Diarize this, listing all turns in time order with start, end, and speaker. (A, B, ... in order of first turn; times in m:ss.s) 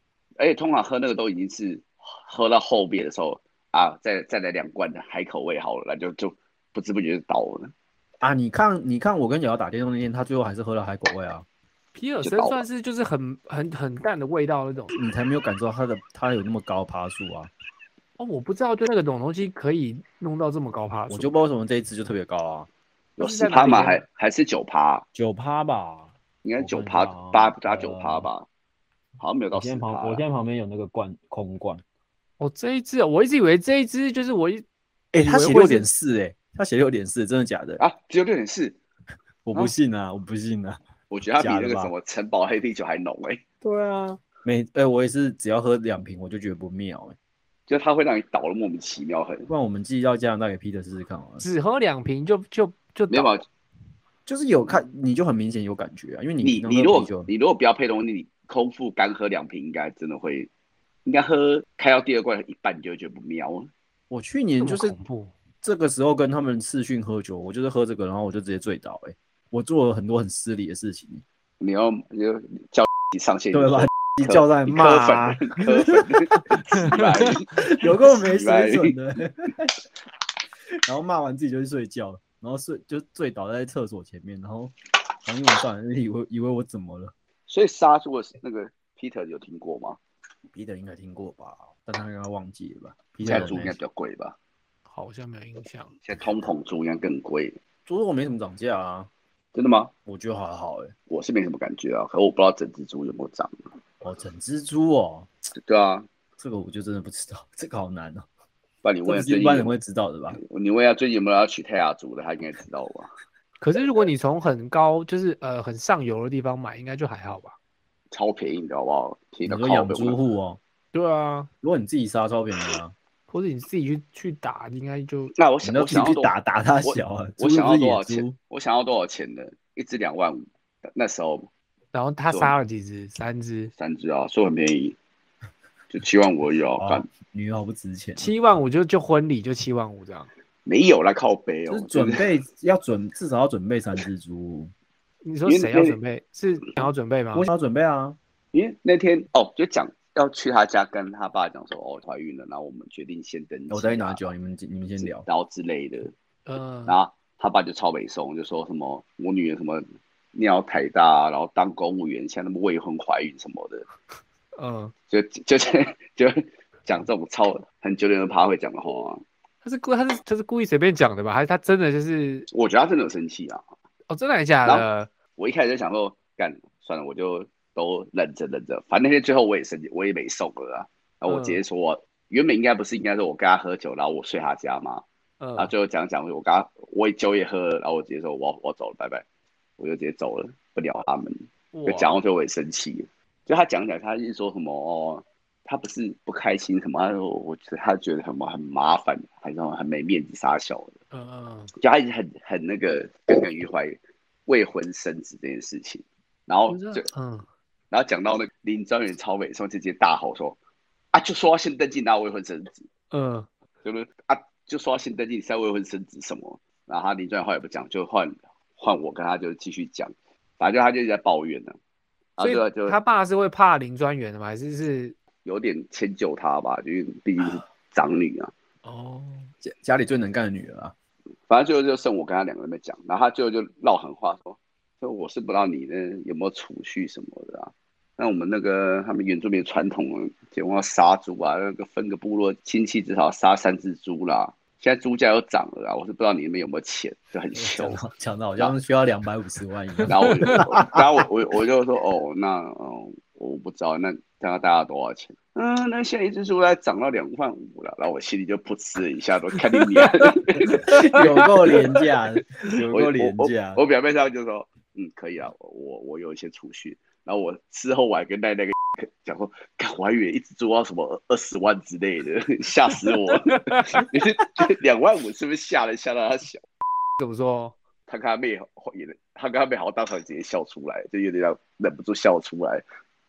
0:00.4-0:07.7 A
0:08.2-0:11.4 B
0:11.9-0:14.9 C
0:12.2-0:12.6 A
0:14.9-0:17.5 B
0:18.2-0:21.3 C
0:21.1-0:22.7 B
0:23.2-0:25.0 A
0:23.2-0:24.0 C
0:25.1-0:28.3 B
0:26.4-0:28.5 A
0:29.2-0:30.2 A
0:29.5-0:31.8 B
0:32.4-0:34.6 C
0:35.1-0:37.8 B
0:35.2-0:35.9 C
0:37.8-0:38.8 A
0:39.4-0:40.8 B
0:41.1-0:43.4 A
0:41.4-0:41.9 B
0:43.6-0:47.1 B
0:47.7-0:49.5 A
0:49.5-0:51.4 B
0:51.4-0:53.3 C
0:53.1-0:53.4 A
0:54.2-0:57.3 B
0:56.4-1:00.5 A
1:01.0-1:03.7 A
1:04.1-1:05.0 B
1:04.6-1:05.3 C
1:05.6-1:11.2 B
1:11.6-1:18.9 A
1:13.5-1:19.8 B
1:20.7-1:24.7 B
1:25.2-1:27.1 B
1:27.5-1:30.0 A
1:30.5-1:33.8 B
1:33.2-1:34.4 A
1:34.9-1:36.0 C
1:36.0-1:37.6 A
1:37.8-1:39.1 B
1:39.5-1:39.9 A
1:40.0-1:40.9 B
1:41.1-1:43.6 A
1:44.0-1:45.3 B
1:45.6-1:46.1 A
1:46.4-1:48.2 B
1:48.8-1:49.7 A
1:49.0-1:50.4 B
1:50.3-1:53.1 A
1:53.6-1:57.6 C
1:58.1-2:00.2 A
1:59.4-2:00.6 B
2:00.9-2:01.5 C
2:01.6-2:02.9 B
2:03.3-2:05.3 C
2:05.3-2:11.5 A
2:05.6-2:08.4 B
2:11.9-2:13.7 C
2:12.3-2:12.5 A
2:13.8-2:15.0 A
2:15.9-2:17.1 A
2:16.8-2:18.3 B
2:18.2-2:20.3 C
2:20.6-2:22.3 A
2:21.7-2:24.7 B
2:25.2-2:27.5 C
2:25.4-2:26.0 A
2:27.3-2:28.2 B
2:28.5-2:34.2 A
2:33.7-2:35.2 B
2:35.0-2:36.1 A
2:36.4-2:37.0 C
2:36.9-2:43.8 A
2:44.6-2:44.9 C
2:45.1-2:49.2 A
2:49.6-2:52.5 C
2:52.5-2:53.6 A
2:54.1-2:55.1 C
2:55.4-3:05.0 A
3:01.3-3:01.6 C
3:05.4-3:05.7 C
3:05.6-3:09.2 A
3:09.8-3:20.9 A
3:11.7-3:12.1 C
3:21.1-3:21.7 C
3:21.8-3:27.1 A
3:26.7-3:27.4 C
3:27.9-3:30.6 A
3:31.1-3:32.9 A
3:33.1-3:33.5 C
3:33.8-3:41.8 A
3:42.4-3:43.0 A
3:42.4-3:45.2 C
3:45.4-3:48.5 A
3:48.8-3:49.5 C
3:49.6-3:50.9 B
3:51.5-4:08.0 A
4:07.5-4:11.0 B
4:10.1-4:22.1 A
4:10.1-4:10.6 C
4:19.7-4:20.2 C
4:20.8-4:23.8 B
4:22.9-4:36.6 A
4:33.5-4:34.0 C
4:37.2-4:37.8 C
4:38.1-4:42.8 A